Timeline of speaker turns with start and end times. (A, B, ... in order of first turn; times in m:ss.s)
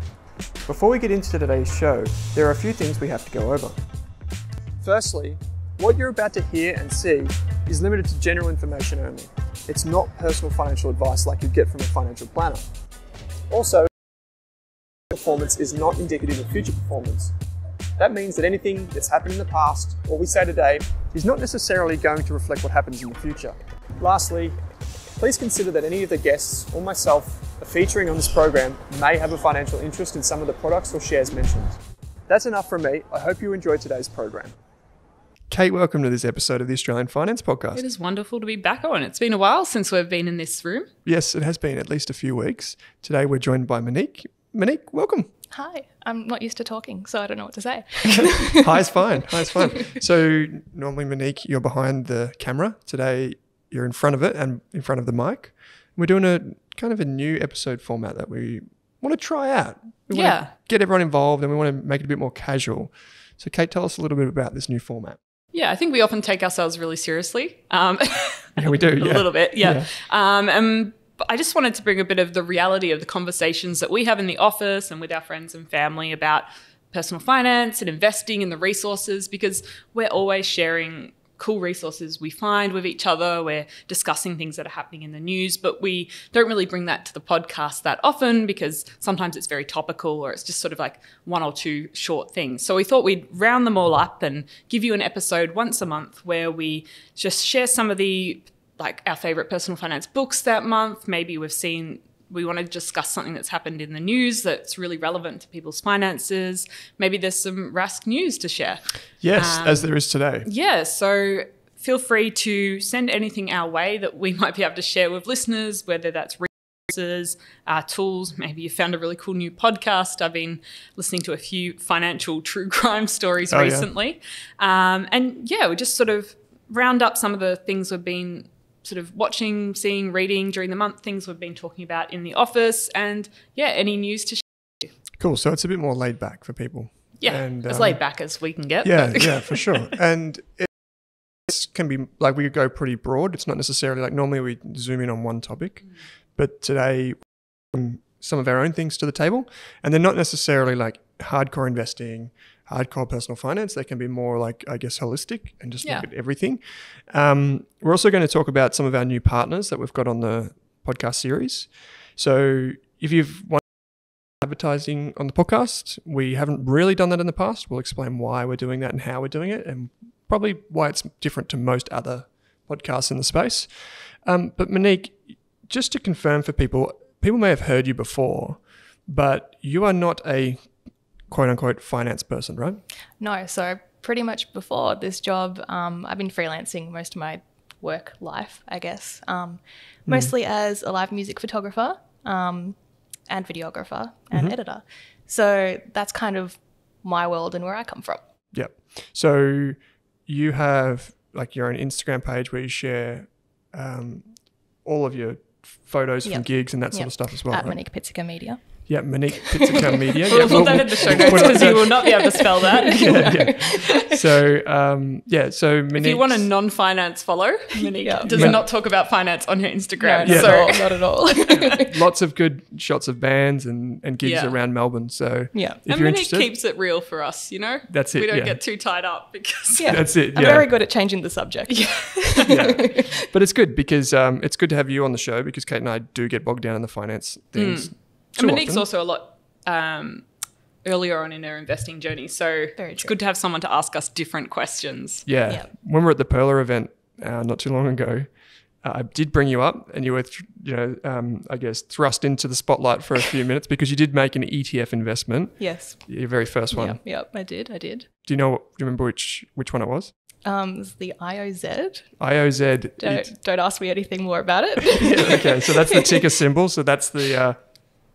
0:00.6-0:03.8 A
0:04.8-0:12.6 A
0:13.5-0:13.9 A
0:15.1-0:17.3 A
0:18.0-0:24.6 A
0:25.2-0:31.8 A
0:32.3-0:34.6 A
0:35.5-0:37.8 A
0:37.8-0:40.9 B
0:41.0-0:45.3 A
0:45.5-0:49.9 C
0:48.6-1:05.2 A
1:00.1-1:00.5 B
1:05.5-1:49.9 B
1:08.6-1:09.9 A
1:49.2-1:50.5 A
1:50.4-2:14.9 B
2:03.5-2:03.9 A
2:15.2-2:18.0 A
2:17.2-2:19.9 B
2:18.8-2:20.7 A
2:21.4-2:43.6 A
2:44.3-3:00.7 A
3:01.3-3:02.8 A
3:03.2-3:12.8 C
3:10.1-3:10.3 A
3:13.3-3:18.2 C
3:18.5-3:27.8 A
3:26.2-3:34.2 C
3:28.9-3:32.2 A
3:30.3-3:33.8 B
3:32.9-3:36.5 A
3:35.9-3:41.8 B
3:37.8-3:38.6 C
3:38.3-3:38.7 A
3:40.0-3:41.9 C
3:40.2-3:40.7 A
3:41.5-3:46.5 A
3:44.2-3:44.6 B
3:45.5-3:45.8 C
3:45.9-3:50.0 B
3:47.9-3:48.6 A
3:49.8-3:53.1 C
3:49.9-3:50.7 A
3:51.7-3:52.6 B
3:52.5-3:58.8 A
3:57.6-4:00.3 B
4:00.8-4:05.3 B
4:02.8-4:03.1 C
4:05.3-4:08.3 A
4:08.8-4:17.0 A
4:15.6-4:16.1 C
4:16.7-4:18.1 C
4:18.2-4:20.1 A
4:20.4-4:22.2 C
4:22.2-4:23.3 A
4:23.0-4:26.2 C
4:25.0-4:27.7 A